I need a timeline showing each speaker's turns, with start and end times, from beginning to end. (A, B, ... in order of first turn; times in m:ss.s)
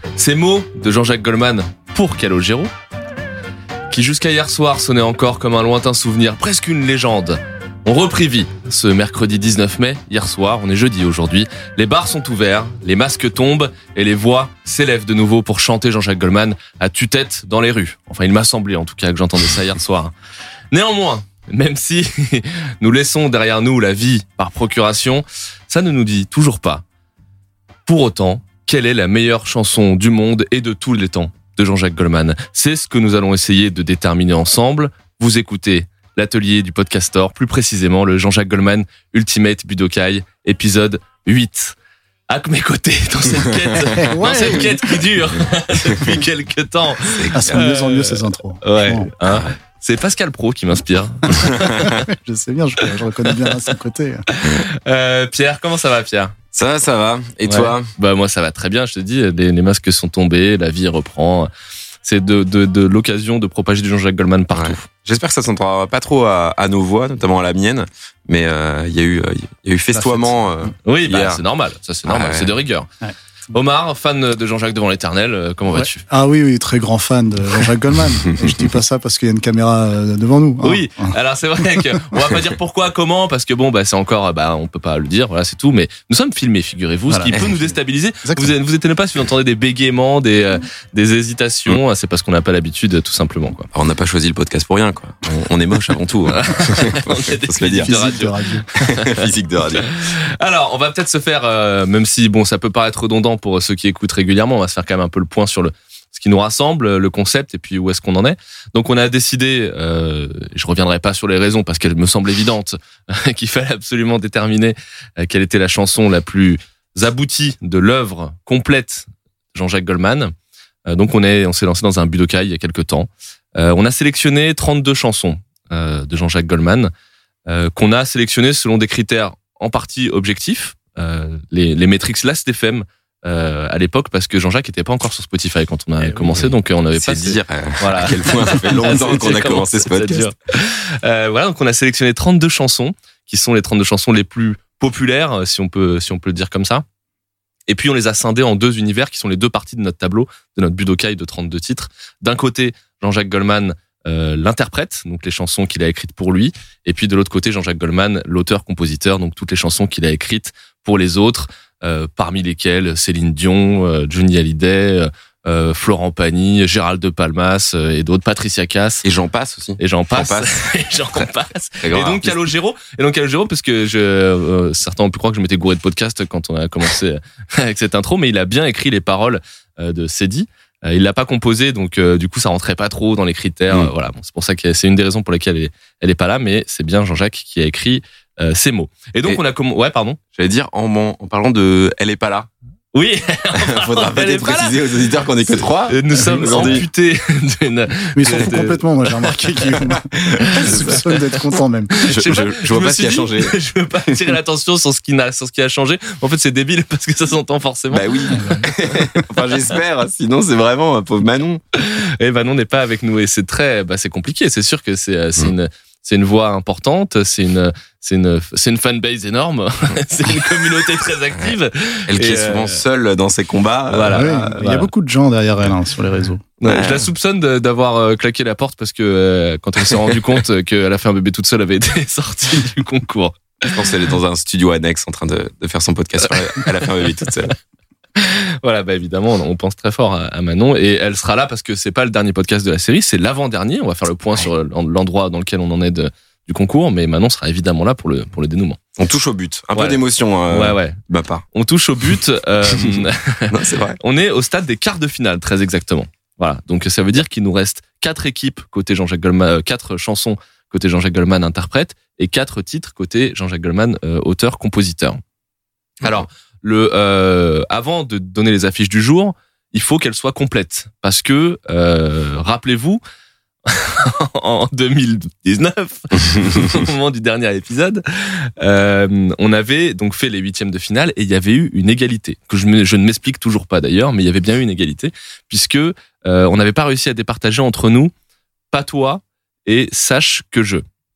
0:00.2-0:02.7 A
0:03.9-0:20.1 A
0:20.7-0:26.8 A
0:27.8-0:41.7 A
0:42.3-0:52.0 A
0:44.0-0:45.0 B
0:47.1-0:47.6 C
0:47.3-0:49.1 B
0:51.6-0:54.2 B
0:52.8-0:53.7 A
0:54.3-0:56.4 A
0:56.5-0:57.9 C
0:57.4-1:01.5 A
1:02.0-1:04.8 A
1:04.5-1:11.4 C
1:09.9-1:10.7 B
1:10.8-1:12.9 A
1:12.0-1:12.5 C
1:13.5-1:16.0 A
1:15.7-1:21.1 B
1:20.6-1:33.7 A
1:27.1-1:27.4 B
1:28.2-1:28.5 B
1:33.7-1:38.0 C
1:36.3-1:39.2 A
1:37.7-1:38.7 B
1:38.8-1:40.0 C
1:39.8-2:00.3 A
2:00.9-2:06.9 A
2:07.5-2:26.8 A
2:16.0-2:20.3 C
2:27.7-2:49.0 A
2:49.0-2:50.7 C
2:49.8-3:10.2 A
2:51.8-2:52.4 C
3:10.3-3:12.5 C
3:12.9-3:14.7 A
3:13.5-3:16.8 C
3:15.8-3:21.4 A
3:18.1-3:22.0 B
3:21.9-3:29.0 A
3:22.0-3:23.5 C
3:27.9-3:31.6 C
3:28.4-3:28.7 B
3:31.7-3:42.8 A
3:42.1-3:44.6 C
3:43.9-3:44.8 A
3:44.1-3:46.4 B
3:46.6-3:53.9 A
3:46.6-3:47.1 C
3:53.7-3:57.6 C
3:56.6-3:56.8 A
3:58.2-4:08.8 A
4:09.0-4:11.4 C
4:09.7-4:10.0 A
4:10.5-4:11.0 A
4:11.5-4:25.2 A
4:13.5-4:14.0 C
4:26.0-4:33.0 A
4:33.7-4:48.1 A
4:48.7-4:50.8 A